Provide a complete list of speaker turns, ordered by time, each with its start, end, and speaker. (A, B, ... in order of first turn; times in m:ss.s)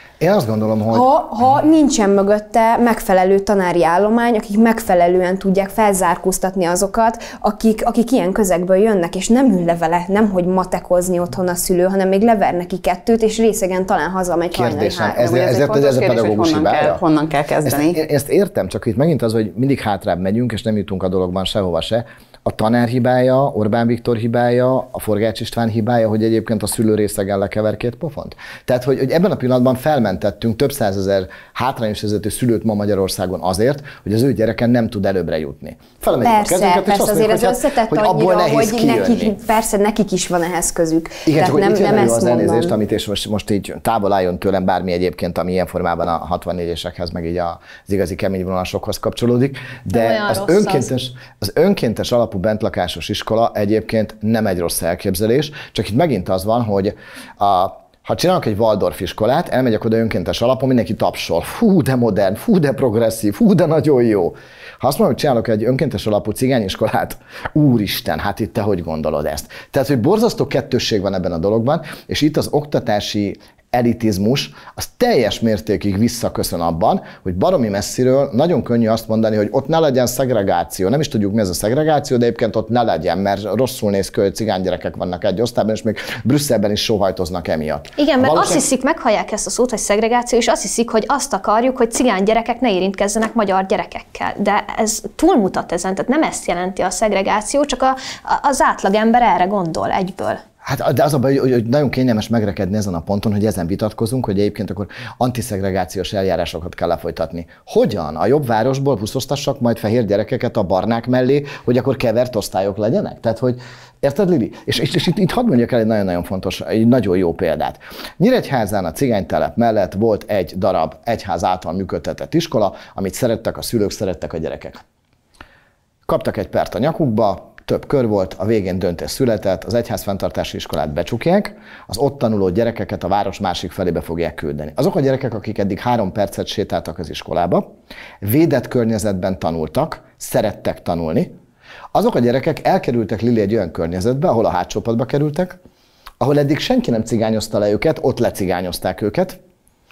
0:00.2-0:01.1 A
0:00.9-0:15.3 B
0:14.5-0:17.0 A
0:15.2-0:18.0 C
0:17.6-0:39.3 A
0:36.2-0:42.8 B
0:41.2-1:28.6 A
0:49.9-0:50.9 D
1:28.0-1:40.4 D
1:40.6-2:04.8 A
2:06.1-2:17.6 A
2:18.2-2:21.3 A
2:21.9-2:25.6 A
2:26.2-2:29.4 A